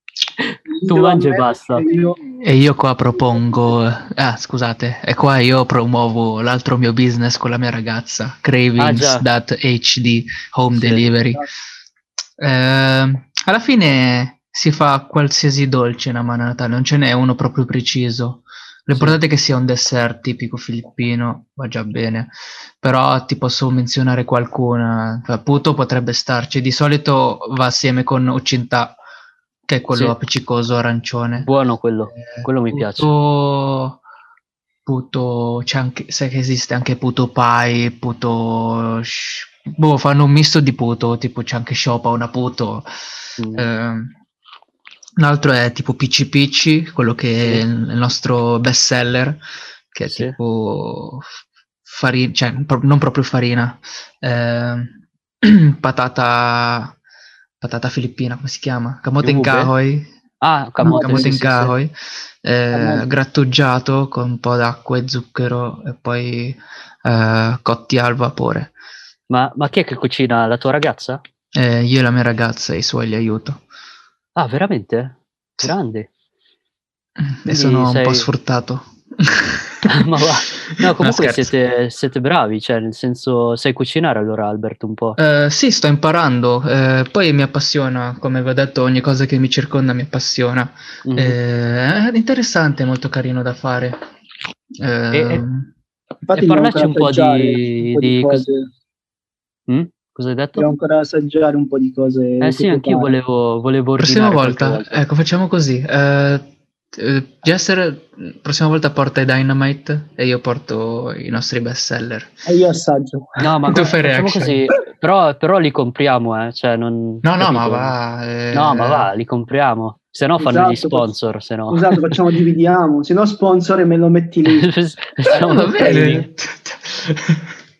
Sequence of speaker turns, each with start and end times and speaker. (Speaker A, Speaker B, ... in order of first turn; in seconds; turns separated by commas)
Speaker A: 0.4-1.8, Speaker B: 0.7-2.2, Speaker C: 2.3-11.4, Speaker A: 8.8-9.2, Speaker A: 10.7-11.1, Speaker C: 12.4-29.0, Speaker A: 18.9-19.2, Speaker C: 29.7-31.5, Speaker A: 31.4-33.1, Speaker C: 32.1-34.0, Speaker C: 34.9-43.0, Speaker A: 43.4-43.7, Speaker C: 43.5-44.1, Speaker C: 45.2-51.3, Speaker A: 50.1-50.4, Speaker C: 51.8-57.0, Speaker C: 57.6-60.1, Speaker A: 59.2-59.7, Speaker A: 60.4-61.7, Speaker B: 60.8-61.3, Speaker C: 60.8-68.7, Speaker B: 62.7-63.1, Speaker A: 69.3-71.2, Speaker C: 71.5-73.6, Speaker A: 74.3-76.1, Speaker C: 77.2-79.9, Speaker A: 77.5-78.3, Speaker A: 79.8-85.2, Speaker C: 80.8-81.5, Speaker C: 85.2-94.0, Speaker A: 91.0-91.4, Speaker C: 94.8-95.7, Speaker A: 95.1-95.4, Speaker B: 96.3-98.7, Speaker A: 96.3-98.4, Speaker A: 99.7-100.7, Speaker B: 100.5-103.1, Speaker A: 102.4-105.0, Speaker C: 104.0-112.3, Speaker B: 112.5-113.8, Speaker A: 113.4-117.9, Speaker C: 113.7-114.7, Speaker C: 117.2-119.1, Speaker A: 118.5-122.2, Speaker B: 120.4-121.1, Speaker B: 121.7-124.7, Speaker A: 124.5-126.2, Speaker B: 125.3-126.1, Speaker C: 125.3-127.5